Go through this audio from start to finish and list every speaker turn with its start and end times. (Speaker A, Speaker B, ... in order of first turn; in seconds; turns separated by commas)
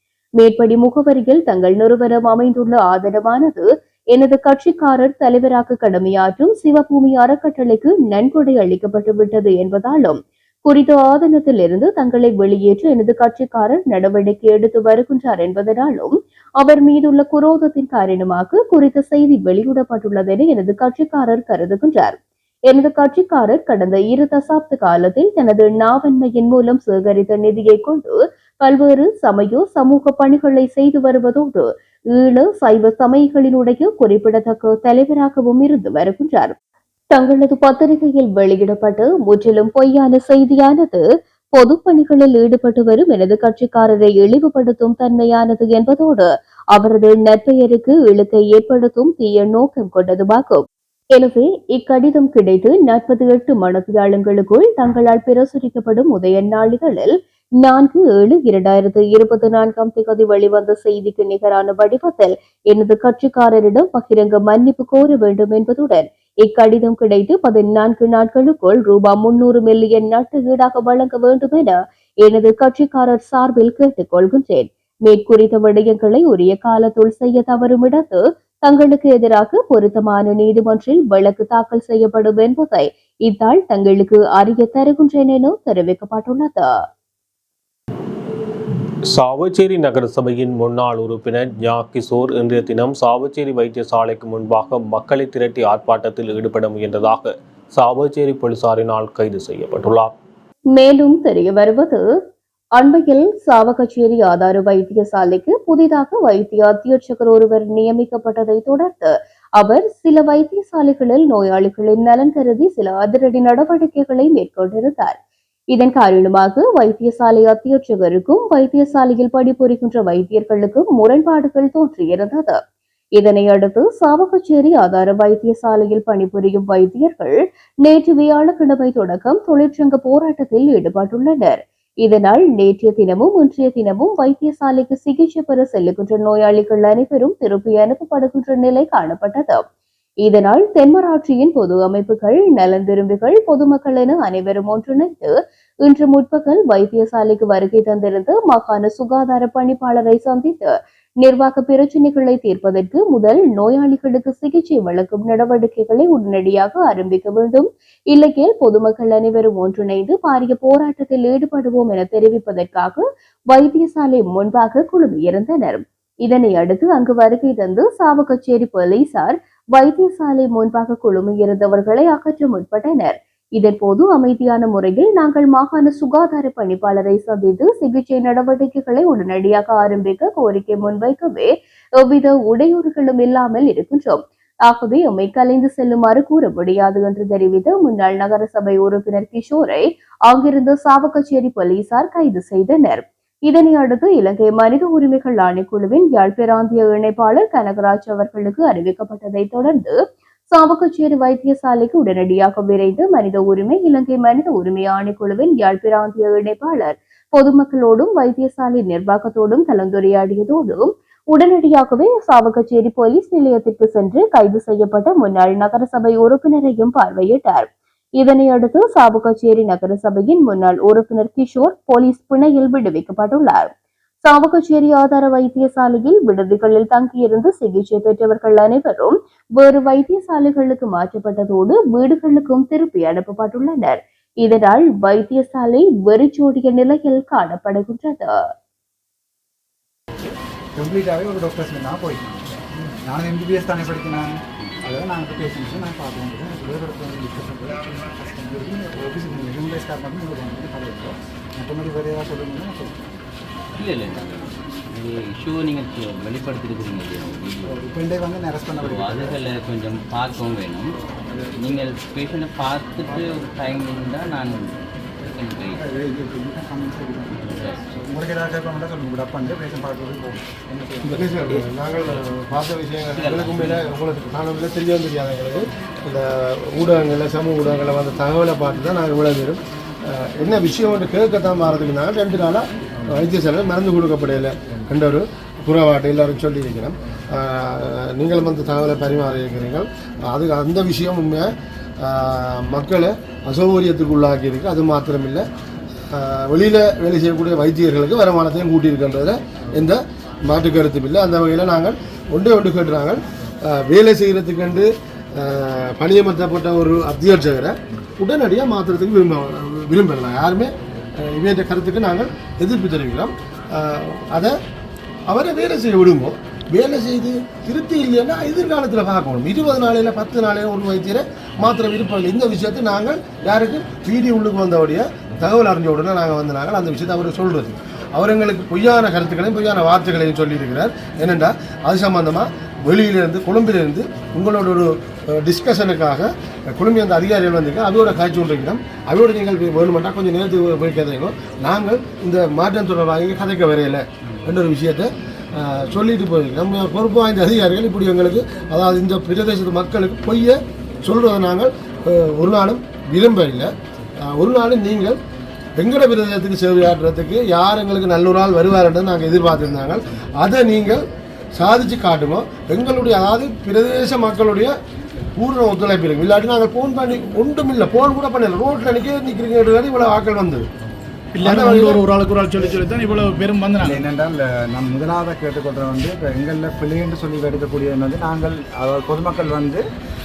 Speaker A: 0.4-22.2, Speaker A: 22.7-36.6, Speaker A: 37.1-41.0, Speaker A: 41.6-86.7, Speaker B: 89.1-100.1, Speaker A: 100.7-102.0, Speaker A: 102.8-115.2, Speaker A: 115.7-122.6, Speaker A: 123.2-139.6, Speaker A: 140.2-200.0, Speaker A: 200.5-223.7, Speaker A: 224.2-238.4, Speaker C: 240.8-253.2, Speaker D: 253.8-257.8, Speaker C: 257.7-259.4, Speaker D: 258.8-260.9, Speaker D: 261.6-265.8, Speaker C: 265.8-271.4, Speaker E: 271.1-295.5, Speaker D: 273.1-273.9, Speaker E: 296.1-314.6, Speaker E: 315.3-355.2, Speaker E: 355.8-364.8, Speaker E: 365.4-370.7, Speaker F: 371.4-374.0, Speaker E: 371.4-372.0, Speaker C: 373.8-379.8